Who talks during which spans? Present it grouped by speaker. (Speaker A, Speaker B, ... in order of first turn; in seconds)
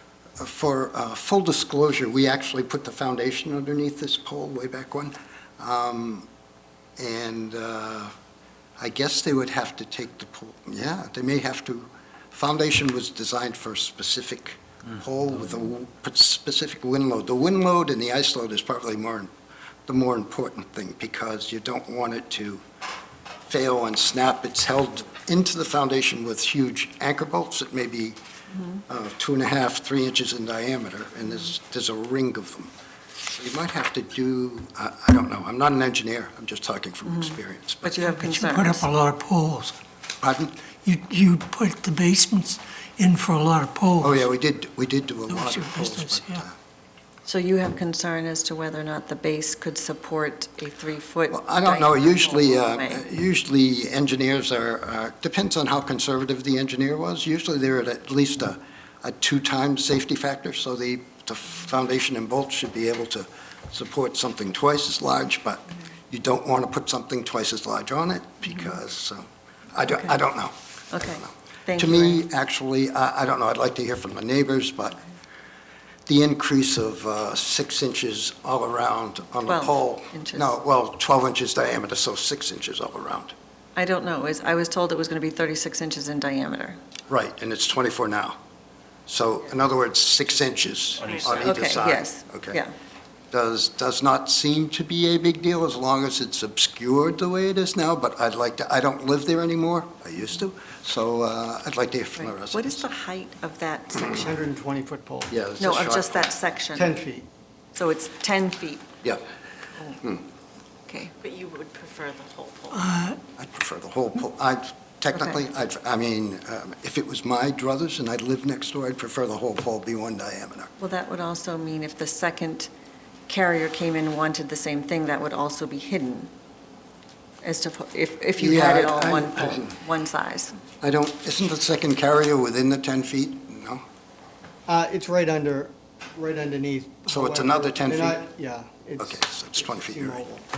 Speaker A: 0.4-6.3, 7.0-8.1, 8.8-19.3, 19.9-22.6, 23.5-28.2, 28.9-32.7, 33.4-38.0, 40.2-40.6, 44.0-46.5, 51.3-75.0, 76.1-83.3, 87.1-88.4, 89.1-92.6, 93.3-102.8, 105.3-106.3, 113.4-120.7, 128.4-129.7, 130.8-133.8, 137.1-138.2, 139.0-140.2
Speaker B: 28.5-28.8, 37.0-38.9, 47.2-53.0, 69.9-70.2, 70.9-72.2, 79.5-80.5, 83.8-86.8, 91.4-92.7, 102.2-104.3, 105.6-107.0, 107.8-108.9, 110.9-111.1, 120.8-122.7, 123.3-126.3, 127.4-130.6
Speaker C: 38.0-39.8, 40.8-44.2, 45.3-46.4, 112.8-113.2
Speaker D: 91.0-91.6, 111.2-112.8
Speaker E: 104.1-105.3, 106.7-107.3, 134.7-140.5